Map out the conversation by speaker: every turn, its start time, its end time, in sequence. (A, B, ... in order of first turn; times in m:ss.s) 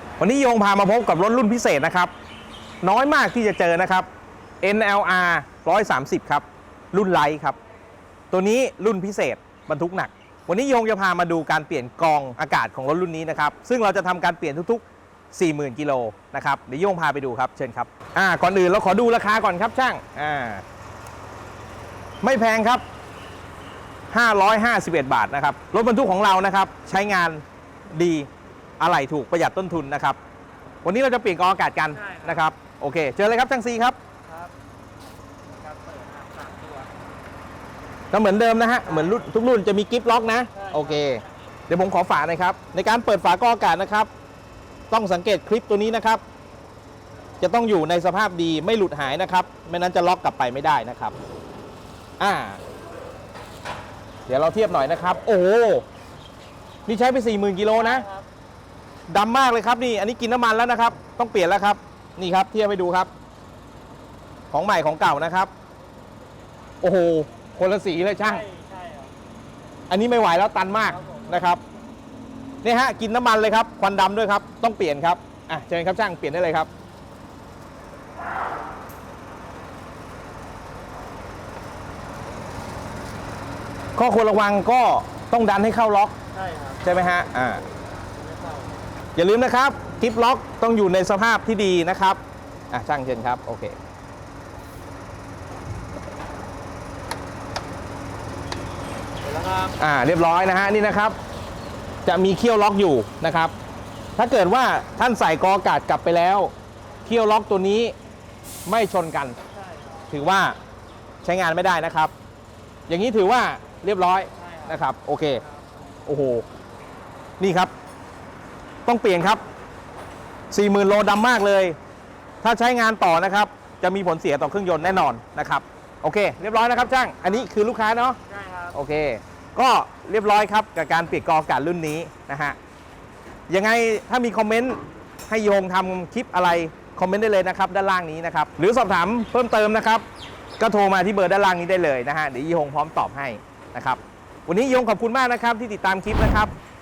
0:00.2-0:02.1 A
0:02.8-0:04.1 A
0:04.6-0:07.6 A
0:08.3-0:20.6 A
0:22.2-0:22.8 A
0:24.1-0:28.3 A
0:28.8-0:30.2 A
0:30.8-0:34.0 A
0:32.0-0:32.4 B
0:35.5-0:36.9 B
0:38.1-0:44.1 A
0:40.5-0:41.3 B
0:44.9-0:46.2 A
0:47.4-0:51.1 A
0:52.2-0:52.6 A
0:54.3-0:55.8 A
0:56.9-0:58.0 A
0:57.7-0:58.2 B
0:59.1-1:03.1 A
1:04.5-1:05.5 A
1:06.8-1:08.5 A
1:08.2-1:09.1 B
1:09.9-1:11.6 A
1:10.9-1:11.4 B
1:12.6-1:16.7 A
1:24.0-1:26.2 A
1:26.3-1:26.8 B
1:26.8-1:27.6 A
1:28.2-1:28.7 B
1:29.2-1:33.8 A
1:39.2-1:39.7 B
1:39.8-1:41.2 A
1:42.0-1:43.5 A
1:44.2-1:46.5 A
1:47.0-1:47.9 A
1:48.6-1:49.4 A
1:50.1-1:50.6 A
1:51.2-1:52.1 A
1:52.9-1:55.4 A
1:54.4-1:54.8 B
1:56.0-1:56.4 A
1:57.4-1:57.7 A
1:58.8-1:59.4 A
2:00.5-2:01.8 A
2:02.4-2:08.2 A
2:08.3-2:08.7 B
2:08.7-2:12.6 A
2:13.5-2:20.0 A
2:20.6-2:26.5 A